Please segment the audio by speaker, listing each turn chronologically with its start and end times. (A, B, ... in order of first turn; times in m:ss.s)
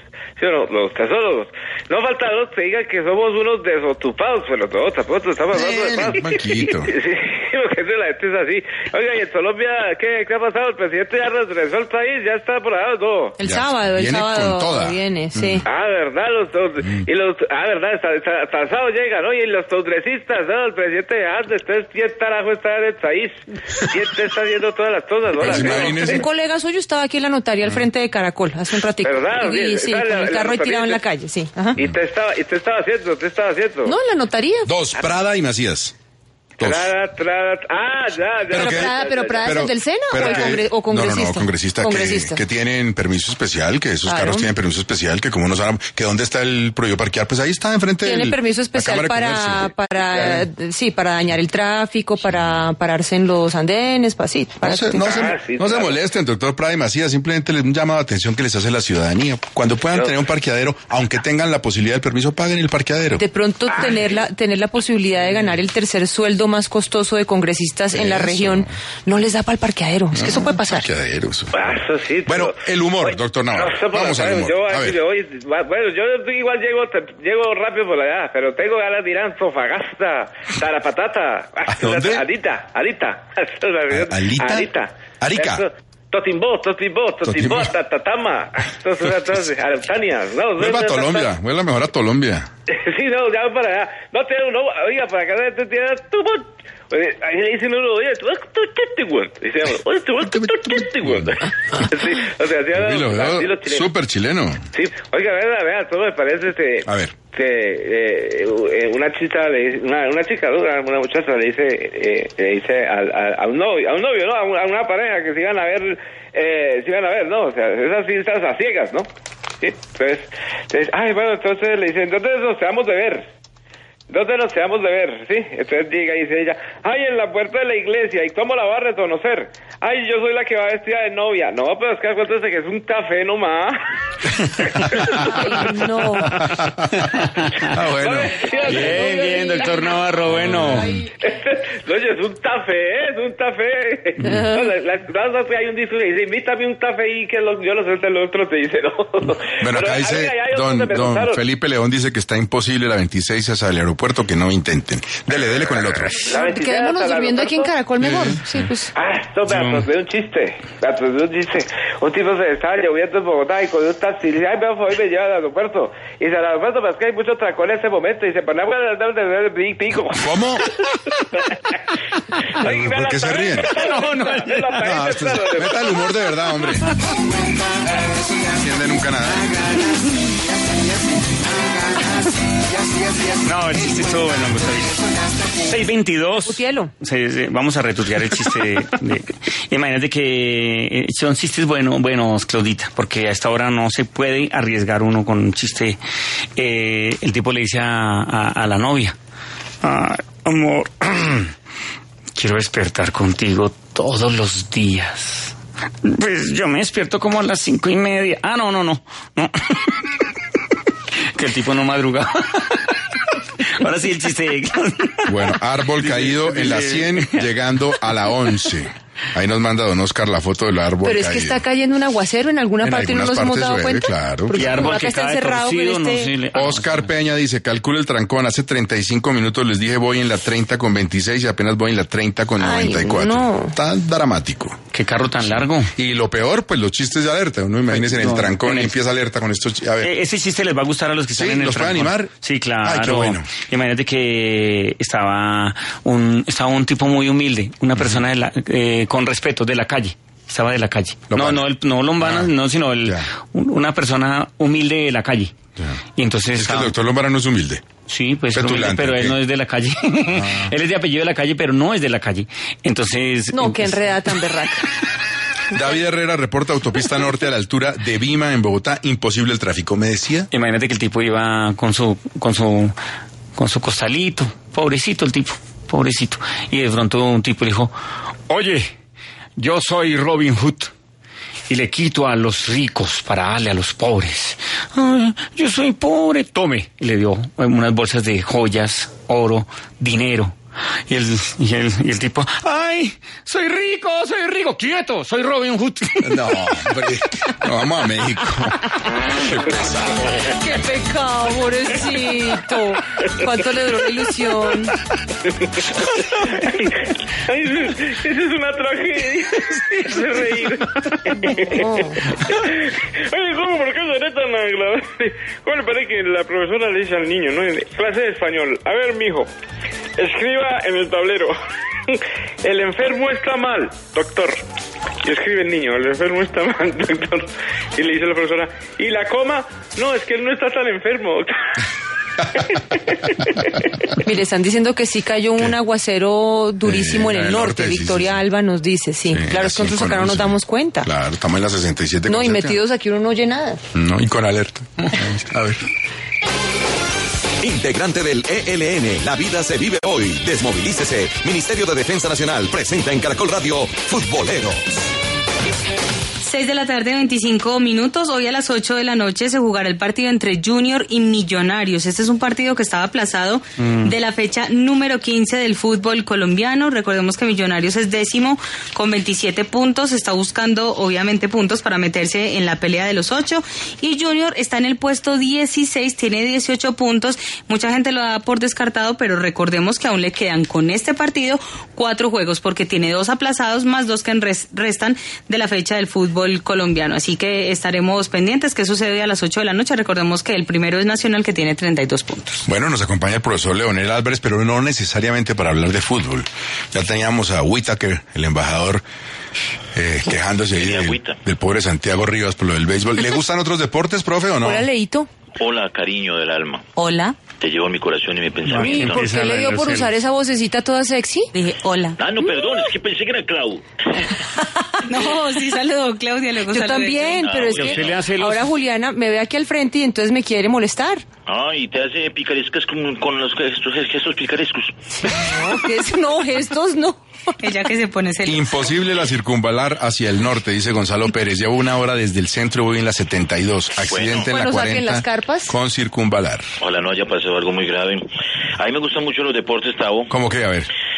0:00.4-0:13.4 A
0:05.5-0:06.9 B
0:13.4-0:15.6 C
0:13.4-0:15.7 B
0:15.6-0:26.2 A
0:25.3-0:26.2 B
0:25.4-0:31.8 C
0:29.0-0:31.0 A
0:31.8-0:33.9 A
0:33.8-0:34.7 C
0:34.6-0:35.9 B
0:36.6-0:39.6 A
0:36.6-0:36.9 B
0:38.5-0:50.5 B
0:38.6-0:42.4 C
0:40.2-0:40.5 A
0:44.1-0:44.5 C
0:48.0-0:55.3 C
0:52.2-0:52.6 B
0:54.6-1:03.2 B
0:55.0-0:56.0 A
1:03.2-1:10.9 C
1:07.9-1:08.7 B
1:10.1-1:11.5 B
1:11.5-1:31.3 A
1:12.3-1:15.0 B
1:21.7-1:22.2 B
1:23.9-1:24.7 B
1:25.2-1:25.6 B
1:27.2-1:27.7 B
1:30.6-1:32.5 B
1:32.7-1:41.2 A
1:41.8-1:43.9 A
1:42.7-1:44.6 B
1:44.7-1:59.1 A
1:46.8-1:47.1 B
1:59.6-2:03.3 A
2:04.1-2:13.8 A
2:14.8-2:15.4 B
2:14.9-2:15.2 A
2:15.2-2:16.4 C
2:16.3-2:17.1 B
2:17.7-2:18.5 B
2:18.0-2:18.8 A
2:18.5-2:19.9 C
2:18.7-2:20.9 D
2:20.3-2:20.8 B
2:21.2-2:31.4 A
2:24.2-2:24.6 C
2:29.6-2:36.3 B
2:35.4-2:37.7 A
2:36.3-2:38.9 C
2:38.0-2:38.4 B
2:39.0-2:50.3 A
2:39.4-2:39.8 D
2:50.1-2:50.7 B
2:52.6-2:55.8 A
2:52.6-2:53.7 B
2:53.7-2:54.8 D
2:54.8-2:56.9 B
2:58.5-2:59.5 B
3:03.4-3:05.0 D
3:05.6-3:16.0 D
3:06.4-3:06.9 C
3:16.6-3:19.2 D
3:19.8-3:21.5 D
3:22.4-3:25.5 D
3:26.0-3:29.8 D
3:31.4-3:32.7 D
3:33.7-3:37.4 D
3:35.2-3:41.6 B
3:41.0-3:46.3 C
3:42.8-3:44.8 B
3:44.5-3:47.1 D
3:46.5-3:54.8 B
3:52.6-3:53.7 C
3:54.9-3:55.9 D
3:56.0-4:00.1 B
3:57.9-3:58.9 D
4:00.0-4:15.5 D
4:01.3-4:03.5 B
4:11.3-4:11.7 B
4:12.2-4:12.5 B
4:16.2-4:16.9 D
4:16.5-4:17.8 B
4:18.1-4:24.0 D
4:18.5-4:19.4 B
4:20.3-4:20.7 B
4:23.5-4:24.8 C
4:25.7-4:30.5 B
4:30.5-4:32.9 D
4:33.6-4:37.9 D
4:38.5-4:38.9 D
4:39.6-4:40.9 D
4:41.7-4:50.6 D
4:51.1-4:56.4 D
4:56.2-5:00.3 B
5:00.5-5:04.9 C
5:06.2-5:06.9 A
5:07.5-5:11.8 A
5:11.4-5:12.2 C
5:12.4-5:19.5 A
5:20.2-5:21.5 A
5:22.1-5:24.6 A
5:25.2-5:31.6 A
5:32.7-5:33.8 A
5:34.2-5:41.1 C
5:36.8-5:38.4 B
5:39.3-5:42.8 B
5:42.3-5:43.8 C
5:43.9-5:45.8 B
5:47.6-5:54.8 E
5:56.4-6:32.6 F
6:03.8-6:04.1 D
6:32.6-6:39.0 B
6:39.9-6:44.8 B
6:40.7-6:41.4 G
6:44.6-6:45.3 C
6:45.6-6:46.9 G
6:47.0-6:47.4 F
6:47.6-6:49.2 G
6:48.7-6:50.1 D
6:48.8-6:51.5 C
6:51.5-6:52.2 F
6:52.2-6:53.8 G
6:55.1-6:57.5 F
6:56.7-7:01.2 C
6:57.4-6:58.2 G
6:57.7-6:58.7 D
7:01.5-7:04.9 G
7:05.2-7:07.2 C
7:07.6-7:08.9 F
7:08.4-7:16.6 B
7:14.0-7:14.4 G
7:14.4-7:15.7 C
7:16.8-7:18.2 G
7:18.8-7:20.3 G
7:20.3-7:20.9 B